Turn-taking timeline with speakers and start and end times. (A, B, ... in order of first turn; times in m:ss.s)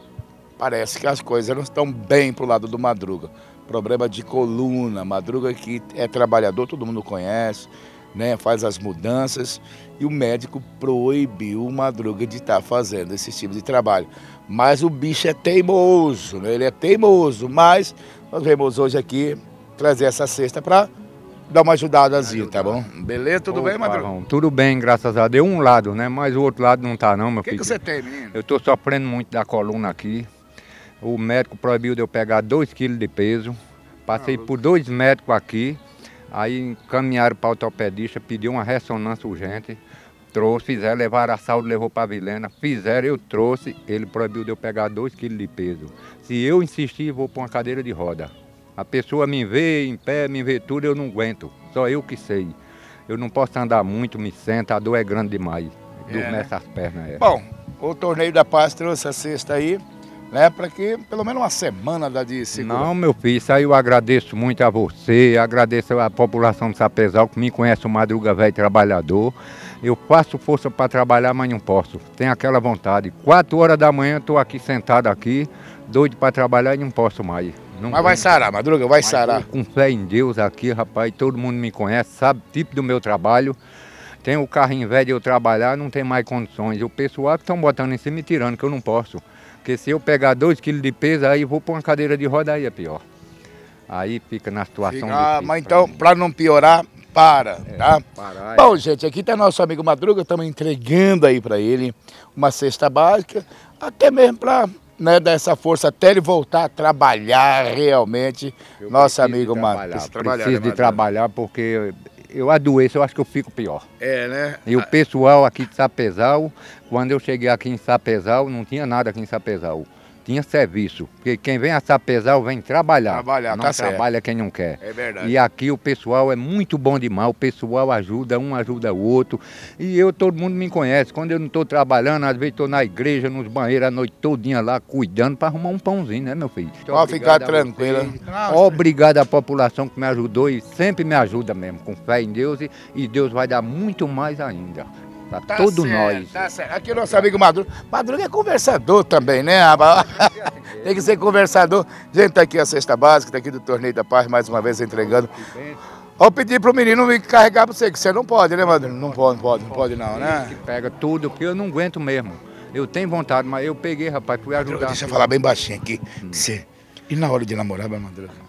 0:00.6-0:20.9 A
0:21.5-0:24.1 A
0:22.2-0:22.8 B
0:23.5-0:27.8 B
0:27.4-0:28.4 A
0:28.3-0:30.2 B
0:31.0-0:35.8 B
0:34.1-0:34.4 A
0:36.3-0:39.8 B
0:40.3-0:52.6 B
0:53.1-0:57.2 B
0:56.1-0:56.5 A
0:57.2-1:02.9 A
1:02.5-1:18.4 B
1:17.9-1:19.4 A
1:19.0-1:23.6 B
1:24.2-1:33.0 B
1:33.9-1:36.0 B
1:34.8-1:38.0 A
1:37.7-1:38.8 B
1:38.5-1:51.0 A
1:48.8-1:53.8 B
1:54.0-1:54.9 A
1:54.6-2:27.3 B
2:03.1-2:04.0 A
2:04.8-2:05.3 A
2:16.9-2:18.8 A
2:25.5-2:35.3 A
2:30.0-2:31.4 B
2:35.0-2:35.8 B
2:36.2-2:40.5 A
2:38.6-2:45.3 B
2:44.6-2:48.4 A